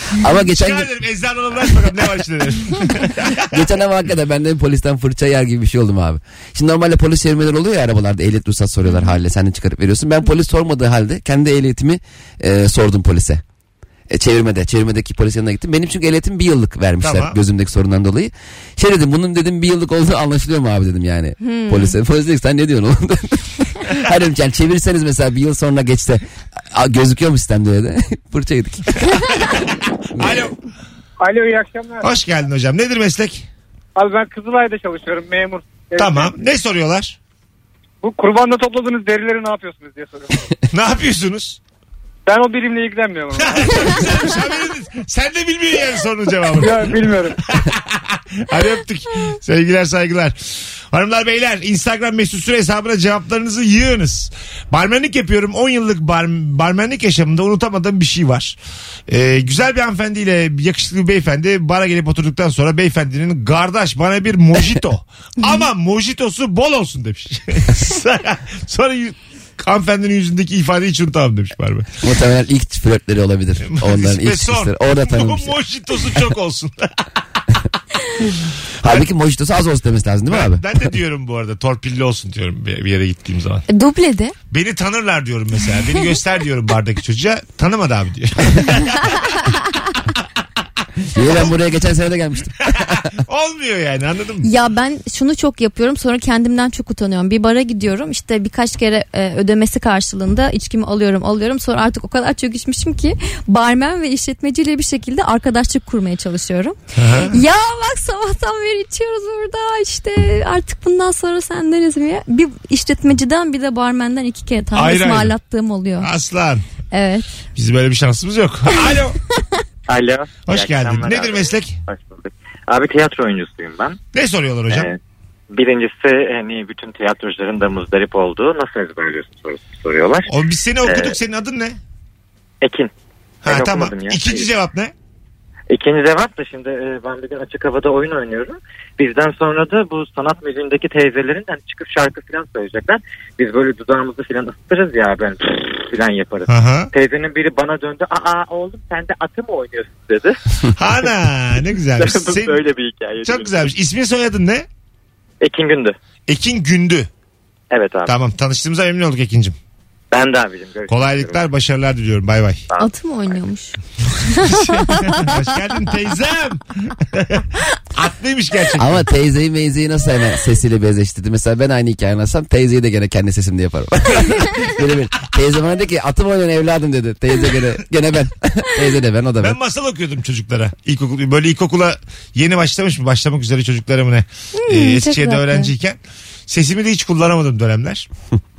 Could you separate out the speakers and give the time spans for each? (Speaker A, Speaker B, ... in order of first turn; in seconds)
Speaker A: 0.2-0.9, 3.5-13.4, 14.1-29.2, 30.1-30.5, 72.0-75.6, 78.8-80.7, 91.1-93.1, 168.8-179.6
Speaker B: 0.5-3.6, 17.0-17.4, 30.2-30.5, 32.0-33.5, 36.0-37.2, 40.7-41.6, 43.3-50.4, 50.9-58.6, 59.1-71.9, 73.6-76.9, 80.3-83.7, 84.5-89.3, 91.2-91.5, 92.7-94.5, 107.0-107.4, 114.8-115.3, 116.0-116.6, 117.5-119.2, 120.5-121.8, 124.1-124.9, 130.3-131.8, 133.4-134.9, 146.5-146.9, 150.8-152.6, 153.2-154.7, 156.3-157.1, 158.1-159.6, 160.9-162.6, 164.3-169.0, 179.4-188.1
Speaker C: 8.9-9.2, 21.4-22.0, 83.7-84.3, 94.4-116.1, 116.9-117.4, 162.8-163.8, 164.4-165.3, 184.6-185.7
Speaker D: 34.0-36.2, 38.0-40.2, 42.3-43.6, 46.7-47.2
Speaker E: 119.9-124.0, 124.7-125.0, 125.5-130.3, 130.8-131.2, 132.6-132.9, 133.4-134.5, 135.7-150.4, 155.4-156.0, 157.7-158.1, 160.1-161.4